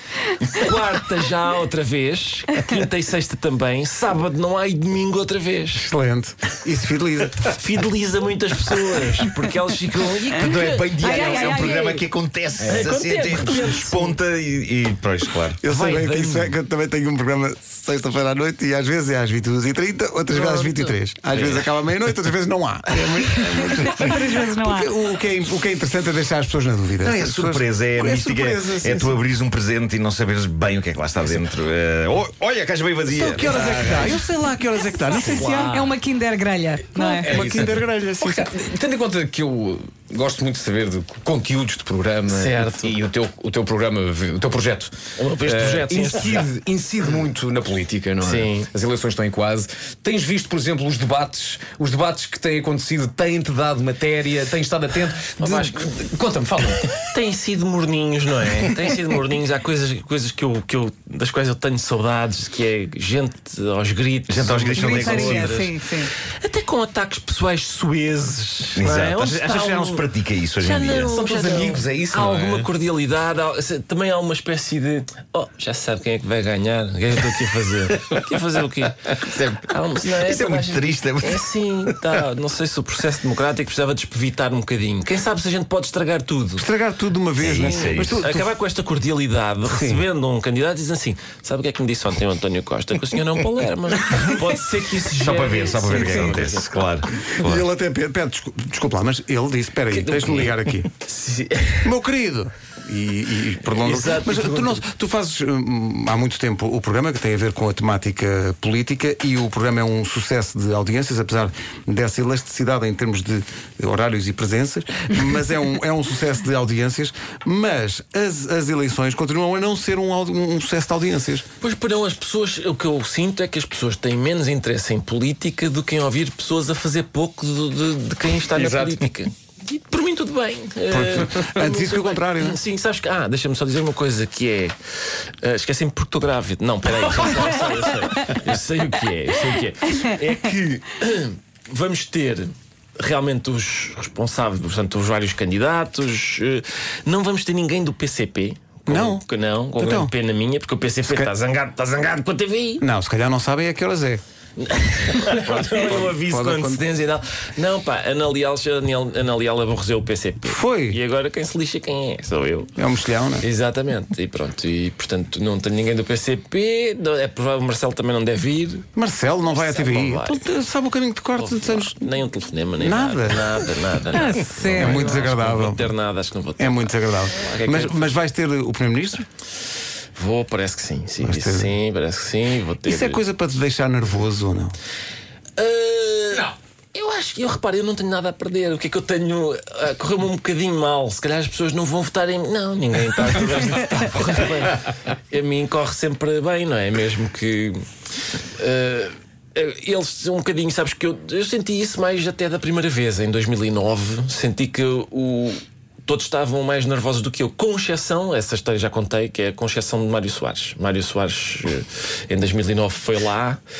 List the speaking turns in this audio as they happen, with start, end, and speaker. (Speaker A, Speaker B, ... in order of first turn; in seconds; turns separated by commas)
Speaker A: 0.3-5.8, Speaker B: 5.7-7.6, Speaker A: 7.5-11.8, Speaker C: 10.2-15.6, Speaker D: 11.0-12.0, Speaker E: 12.6-12.9, Speaker A: 12.6-14.2, Speaker B: 15.6-29.2, Speaker A: 15.7-16.5, Speaker A: 20.3-20.9, Speaker C: 21.4-21.7, Speaker D: 23.8-24.9, Speaker C: 27.0-34.0, Speaker B: 33.1-35.8, Speaker E: 33.6-34.1, Speaker D: 35.1-37.4, Speaker E: 35.2-35.9, Speaker E: 36.9-57.0, Speaker B: 37.2-38.5, Speaker A: 42.3-42.9, Speaker A: 45.2-46.5, Speaker A: 48.2-48.7, Speaker A: 55.4-55.9, Speaker A: 57.1-86.7, Speaker C: 64.3-65.7, Speaker D: 64.7-66.1, Speaker C: 68.8-71.2, Speaker E: 71.1-72.6, Speaker C: 79.1-82.2, Speaker B: 86.6-88.5, Speaker C: 87.4-88.2, Speaker A: 87.5-96.9, Speaker B: 89.6-90.0, Speaker C: 95.2-97.7, Speaker B: 97.4-100.9, Speaker A: 99.9-101.9, Speaker B: 101.8-121.5, Speaker A: 103.6-104.8, Speaker A: 121.6-134.8, Speaker E: 128.5-129.0, Speaker B: 130.9-132.6, Speaker A: 135.4-152.8, Speaker B: 148.9-149.2, Speaker B: 149.8-150.1, Speaker B: 151.0-151.3, Speaker B: 152.8-154.2, Speaker A: 154.6-162.7, Speaker B: 155.3-156.8, Speaker B: 160.4-161.0, Speaker B: 162.8-163.5, Speaker A: 163.4-168.9, Speaker B: 168.9-172.1, Speaker A: 169.4-170.4, Speaker A: 171.4-178.1, Speaker B: 172.8-173.6, Speaker D: 174.1-175.2, Speaker B: 174.7-175.9, Speaker B: 176.6-179.2, Speaker A: 180.2-183.2, Speaker B: 181.2-181.7, Speaker B: 182.8-184.7, Speaker A: 185.6-197.8, Speaker A: 198.6-213.6